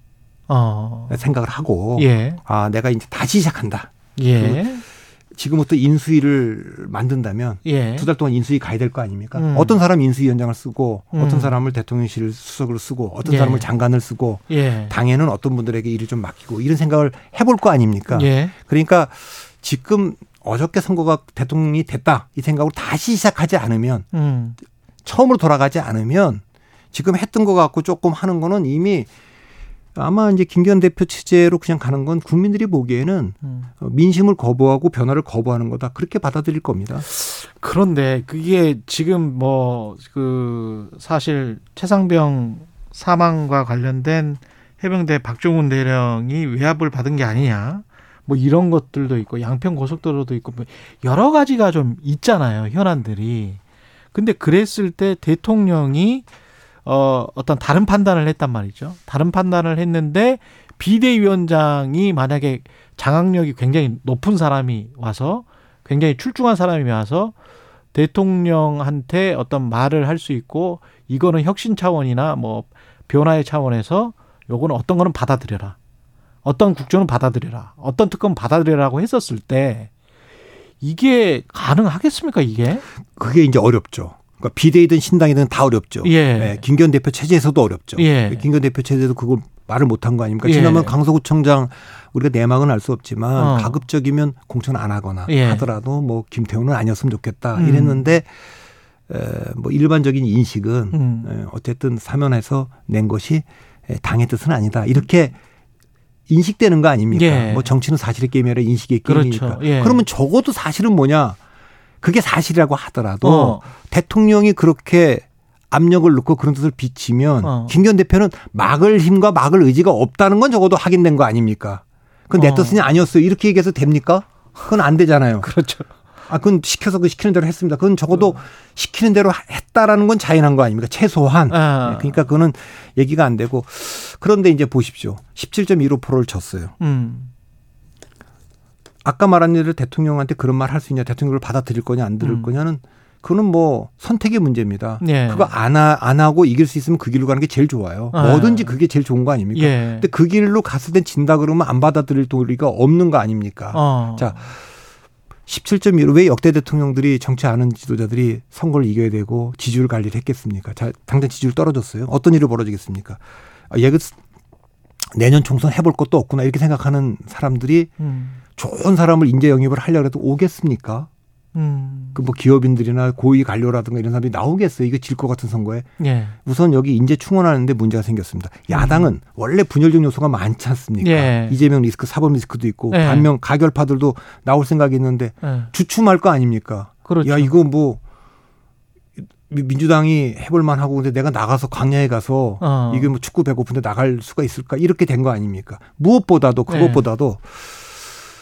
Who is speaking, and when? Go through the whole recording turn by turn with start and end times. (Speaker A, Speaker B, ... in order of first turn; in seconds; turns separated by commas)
Speaker A: 0.5-1.2, Speaker B: 1.1-4.6, Speaker A: 2.0-2.4, Speaker A: 4.2-4.8, Speaker B: 5.3-24.1, Speaker A: 7.6-8.1, Speaker A: 9.3-9.8, Speaker A: 11.1-11.5, Speaker A: 13.2-13.7, Speaker A: 14.5-14.9, Speaker A: 18.1-18.5, Speaker A: 24.1-24.6, Speaker B: 25.0-29.1, Speaker B: 29.9-37.0, Speaker A: 37.0-53.6, Speaker A: 54.1-56.2, Speaker A: 56.8-67.3, Speaker A: 67.9-75.8, Speaker A: 76.4-79.9, Speaker A: 80.8-82.8, Speaker B: 83.1-98.4, Speaker A: 86.0-86.6, Speaker A: 88.0-88.4, Speaker A: 90.4-90.9, Speaker A: 93.4-93.8, Speaker A: 95.3-95.6, Speaker A: 97.5-98.1, Speaker B: 99.1-105.3, Speaker A: 100.9-101.3, Speaker B: 106.3-111.4, Speaker A: 107.1-107.7, Speaker A: 109.0-110.0, Speaker B: 112.0-125.5, Speaker A: 113.2-113.6, Speaker A: 117.4-117.7, Speaker A: 122.3-122.8, Speaker A: 125.4-125.9, Speaker B: 126.3-136.7, Speaker A: 131.5-132.2, Speaker A: 136.8-137.3, Speaker B: 139.0-154.6, Speaker A: 142.2-142.5, Speaker A: 145.0-145.5, Speaker A: 148.1-148.8, Speaker A: 149.5-150.0, Speaker A: 153.7-154.4, Speaker B: 155.5-164.2, Speaker B: 165.1-167.9, Speaker A: 168.0-168.4, Speaker B: 168.5-171.1, Speaker A: 171.5-172.2, Speaker B: 172.1-175.9, Speaker A: 176.0-176.3, Speaker B: 176.4-188.0, Speaker A: 178.7-179.1, Speaker A: 181.0-181.6, Speaker A: 182.9-183.3, Speaker A: 185.4-185.7, Speaker A: 187.1-187.5, Speaker B: 189.2-198.0, Speaker A: 192.6-193.1, Speaker A: 196.7-197.1